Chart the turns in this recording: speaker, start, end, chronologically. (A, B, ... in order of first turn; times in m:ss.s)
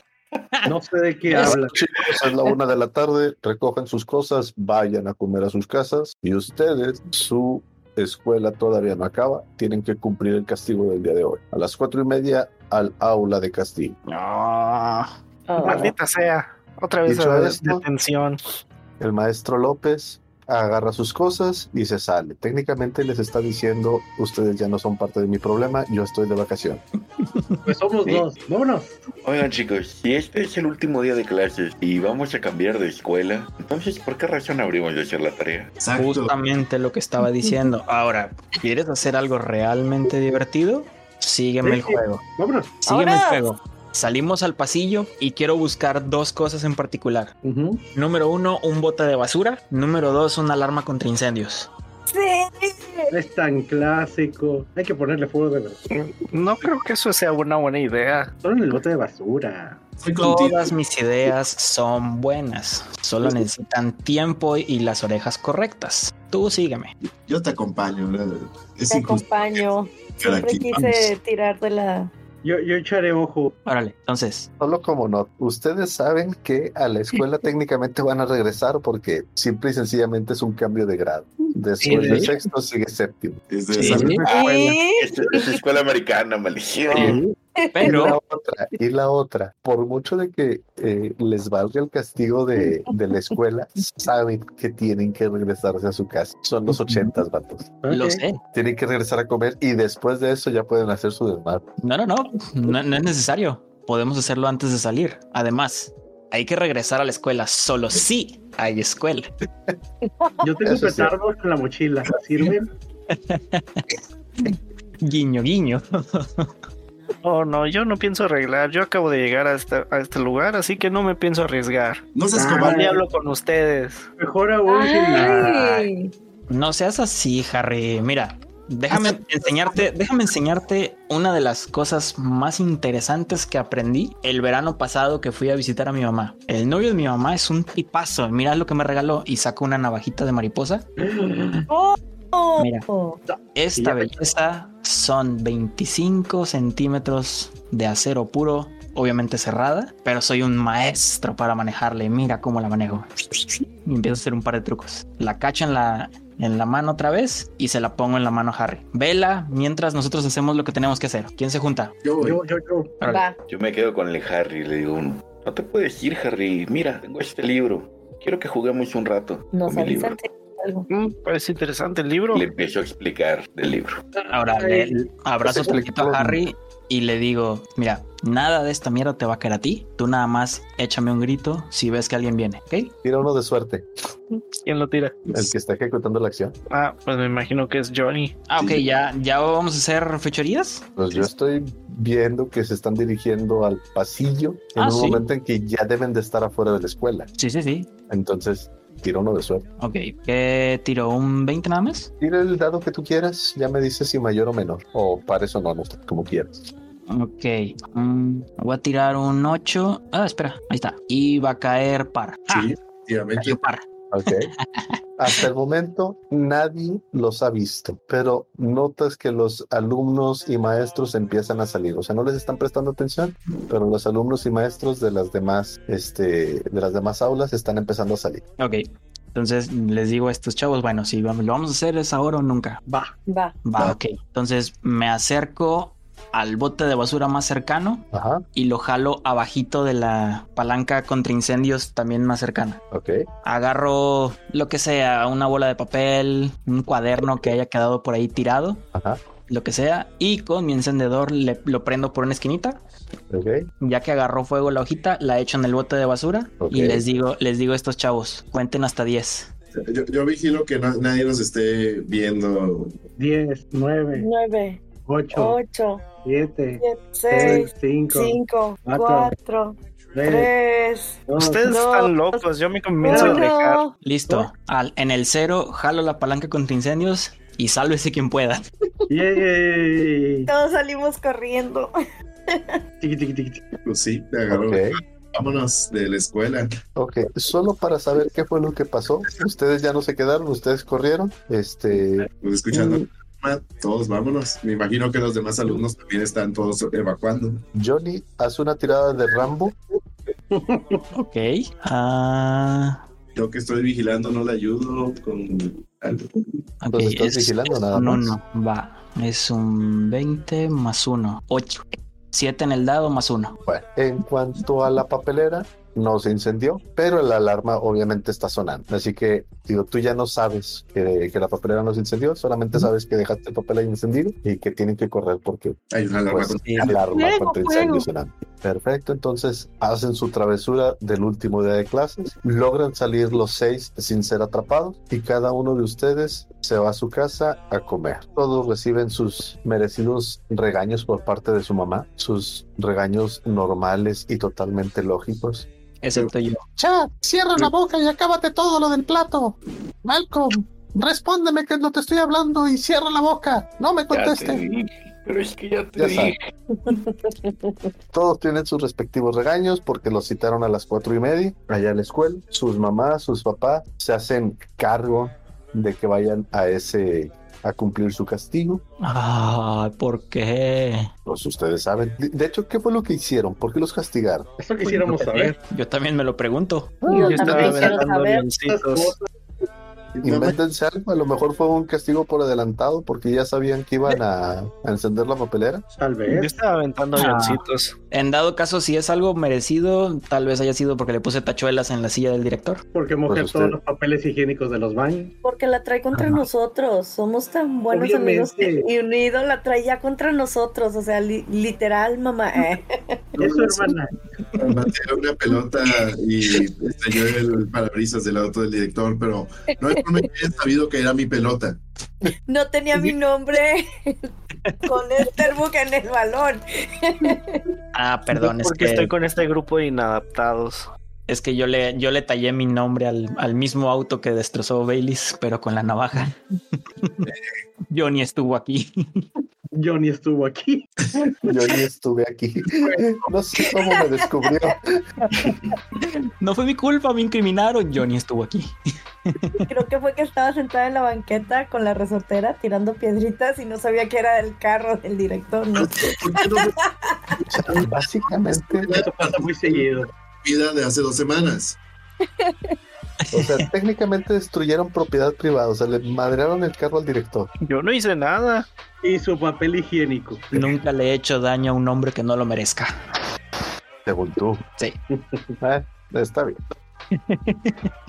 0:00.6-0:01.8 A
0:01.4-0:14.0 B
0:14.1-0:15.1 C
0:15.5-0:15.9 D
0:15.6-0:15.9 A
0:15.6-0:18.4 C
0:17.1-0:17.8 B
0:19.0-0:26.8 B
0:27.6-0:29.0 A
0:29.2-0:35.7 E
0:35.8-0:36.3 F
0:36.0-0:42.2 G
0:41.6-0:42.8 A
0:42.8-0:47.3 G
0:42.9-0:43.4 D
0:47.4-0:47.8 A
0:47.9-0:51.7 G
0:52.1-0:53.1 D
0:53.1-0:55.8 A
0:55.9-0:58.3 C
0:58.4-0:59.8 A
1:00.0-1:00.8 F
1:00.2-1:06.9 G
1:07.3-1:09.6 F
1:08.9-1:12.1 D
1:10.2-1:11.1 F
1:12.4-1:13.6 A
1:13.6-1:14.5 G
1:14.6-1:23.4 B
1:21.8-1:22.4 C
1:22.0-1:22.2 G
1:23.5-1:24.4 F
1:23.7-1:24.2 G
1:23.9-1:24.8 A
1:24.3-1:25.5 D
1:24.9-1:27.2 E
1:26.9-1:27.3 A
1:27.6-1:27.9 D
1:27.7-1:28.2 G
1:27.8-1:37.8 B
1:37.8-1:38.2 A
1:37.9-1:38.4 G
1:38.5-1:41.6 B
1:41.8-1:49.3 G
1:50.0-1:50.4 D
1:50.4-1:52.7 A
1:50.6-1:51.1 B
1:53.1-1:56.5 G
1:57.2-2:04.1 C
2:02.1-2:02.9 F
2:02.3-2:03.0 A
2:04.2-2:05.7 A
2:04.7-2:06.1 D
2:06.5-2:20.9 G
2:21.7-2:23.2 D
2:22.6-2:22.8 G
2:23.3-2:24.1 A
2:23.6-2:41.9 G
2:42.0-2:42.4 F
2:42.2-2:43.0 A
2:43.0-2:43.4 D
2:43.5-2:50.2 E
2:49.5-2:50.9 D
2:50.9-2:52.4 C
2:52.3-2:54.0 E
2:54.2-2:54.9 A
2:54.3-3:02.9 G
2:55.4-2:56.4 B
3:03.0-3:03.9 B
3:04.6-3:05.3 C
3:05.3-3:06.6 B
3:06.7-3:08.5 C
3:08.5-3:10.9 G
3:08.6-3:08.8 F
3:11.0-3:17.3 B
3:14.8-3:15.2 G
3:17.4-3:17.9 G
3:18.1-3:19.7 B
3:19.8-3:22.1 G
3:22.2-3:26.7 B
3:27.1-3:32.7 G
3:32.5-3:33.6 F
3:33.4-3:33.8 G
3:34.1-3:34.5 B
3:34.6-3:35.4 G
3:35.2-3:48.4 B
3:48.6-3:52.8 G
3:52.9-3:53.1 A
3:53.3-3:53.6 D
3:53.6-4:02.8 G
3:58.1-3:58.4 B
4:02.9-4:03.3 B
4:03.4-4:08.8 G
4:08.9-4:09.2 B
4:09.5-4:12.8 G
4:13.3-4:13.7 B
4:13.8-4:19.5 G
4:16.6-4:17.0 B
4:19.8-4:23.0 F
4:23.2-4:24.3 A
4:24.1-4:26.1 D
4:25.0-4:25.6 A
4:26.2-4:29.4 A
4:26.8-4:32.5 D
4:30.1-4:30.5 A
4:31.3-4:31.7 A
4:31.4-4:33.8 C
4:33.0-4:33.9 D
4:33.1-4:33.5 A
4:34.0-4:38.6 G
4:39.1-4:40.5 A
4:40.5-4:41.9 D
4:42.5-4:42.8 D
4:43.0-4:43.6 A
4:43.8-4:46.8 F
4:44.5-4:45.0 B
4:47.0-4:52.3 B
4:52.3-4:57.6 F
4:57.7-4:59.8 B
5:00.5-5:01.0 A
5:01.1-5:03.0 G
5:03.4-5:06.4 F
5:06.8-5:13.6 G
5:06.9-5:08.4 B
5:13.6-5:25.8 B
5:25.9-5:27.1 F
5:26.3-5:45.7 B
5:26.6-5:28.0 G
5:46.0-5:46.6 G
5:46.8-5:54.6 B
5:54.1-5:56.4 E
5:56.0-5:56.4 B
5:56.8-5:57.7 D
5:58.1-6:08.8 B
6:09.0-6:11.1 G
6:11.3-6:14.5 B
6:14.6-6:15.6 A
6:14.8-6:17.0 G
6:17.0-6:17.5 B
6:17.1-6:18.5 D
6:17.1-6:19.1 C
6:17.2-6:19.3 A
6:20.1-6:20.6 F
6:20.2-6:25.9 B
6:26.0-6:26.6 A
6:26.3-6:27.9 C
6:27.2-6:27.6 G
6:28.1-6:32.8 G
6:32.9-6:35.3 A
6:33.3-6:33.8 B
6:35.4-6:43.2 D
6:37.9-6:38.9 A
6:43.4-6:44.1 A
6:43.4-6:43.7 F
6:44.6-6:51.8 F
6:52.5-6:54.3 D
6:54.9-6:57.6 D
6:57.9-6:59.1 G
6:58.4-7:00.9 C
7:01.3-7:07.3 G
7:07.9-7:09.2 G
7:09.8-7:10.9 A
7:11.4-7:15.0 B
7:13.7-7:14.0 D
7:15.4-7:15.7 F
7:16.0-7:18.8 G
7:19.3-7:19.6 G
7:19.6-7:27.4 D
7:25.7-7:26.8 F
7:27.5-7:29.0 B
7:28.6-7:31.8 F
7:28.9-7:30.1 A
7:32.3-7:32.8 D
7:33.3-7:33.6 G
7:33.3-7:37.5 B
7:37.6-7:38.7 C
7:39.0-7:40.7 A
7:40.5-7:42.9 G
7:44.1-7:44.6 B
7:45.6-7:46.6 B
7:47.3-7:47.9 G